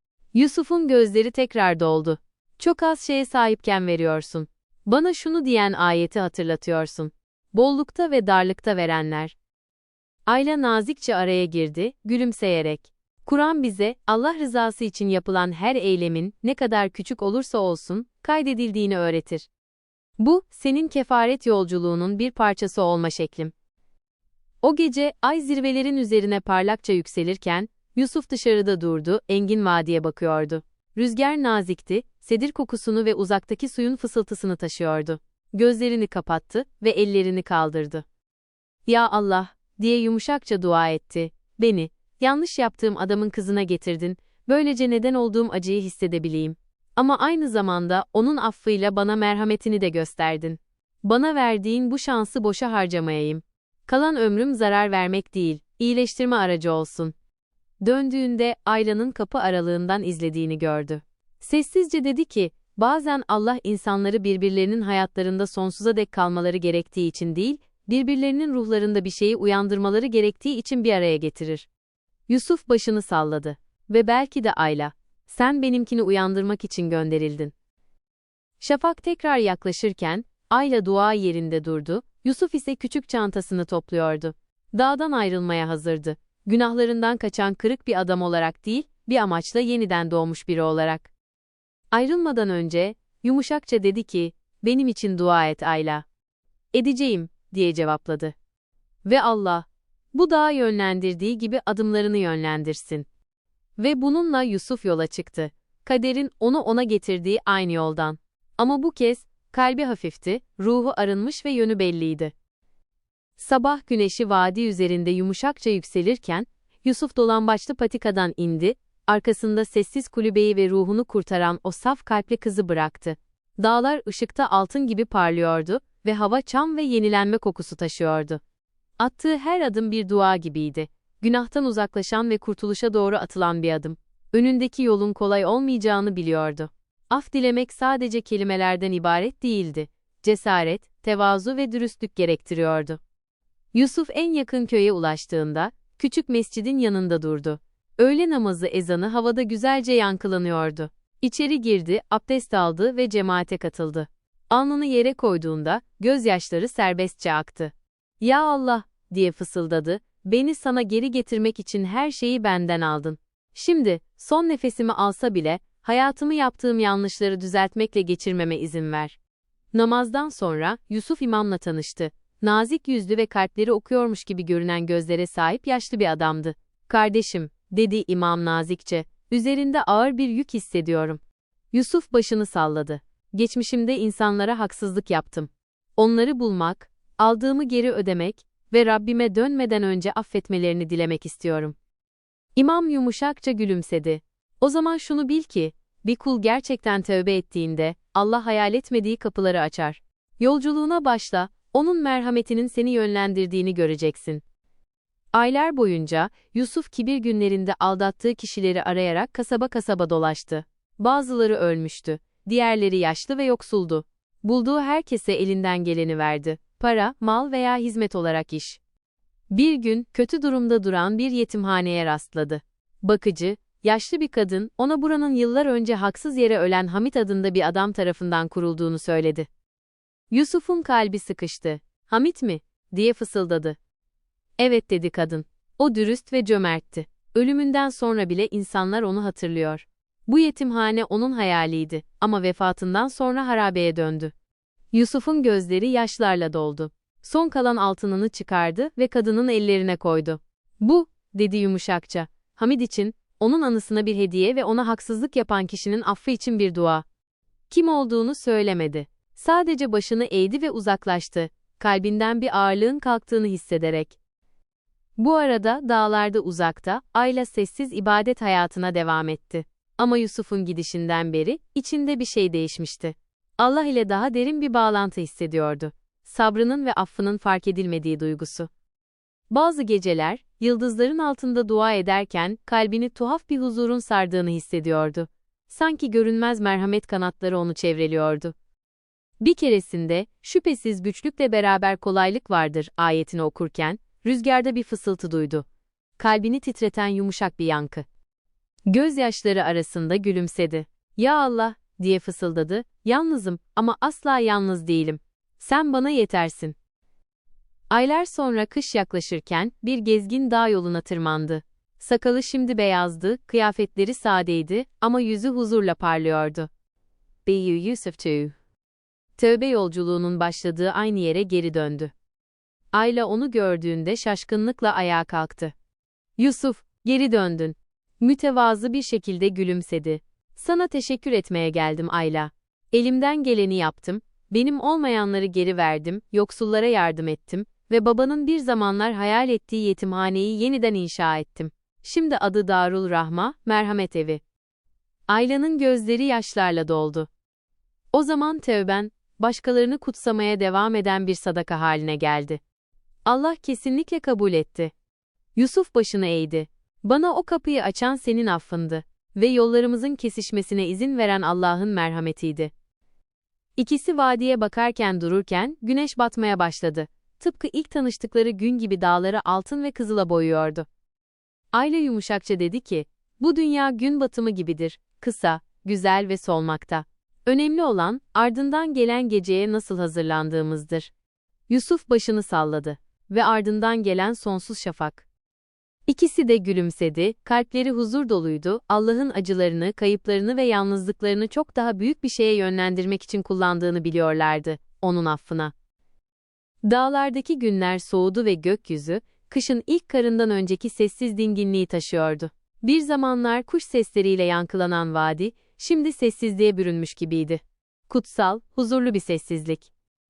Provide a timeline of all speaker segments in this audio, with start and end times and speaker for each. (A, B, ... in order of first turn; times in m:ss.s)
0:00.3-0:09.4 A
0:10.3-0:19.5 A
0:20.2-0:23.5 A
0:24.6-0:38.0 A
0:38.9-0:57.1 A
0:57.8-1:11.7 A
1:12.3-1:17.5 A
1:18.6-1:31.1 A
1:31.9-1:36.0 A
1:36.7-1:38.3 A
1:39.0-1:43.1 A
1:43.8-1:52.3 A
1:53.4-2:08.4 A
2:09.0-2:23.0 A
2:23.7-2:49.2 A
2:49.7-3:01.2 A
3:01.7-3:11.8 A
3:12.6-3:24.4 A
3:25.3-3:38.8 A
3:39.5-3:49.5 A
3:50.3-3:53.8 A
3:54.6-4:04.3 A
4:04.9-4:17.0 A
4:17.7-4:24.2 A
4:25.2-4:38.7 A
4:39.5-4:48.6 A
4:49.4-4:55.6 A
4:56.2-4:58.1 A
4:58.9-5:06.8 A
5:07.9-5:16.7 A
5:17.5-5:18.6 A
5:19.4-5:22.1 A
5:22.9-5:25.7 A
5:26.4-5:44.4 A
5:45.3-5:47.3 A
5:48.1-5:52.6 A
5:53.3-5:54.9 A
5:55.6-6:02.7 A
6:03.8-6:10.9 A
6:11.7-6:21.1 A
6:21.7-6:25.3 A
6:26.1-6:35.7 A
6:36.8-6:49.9 A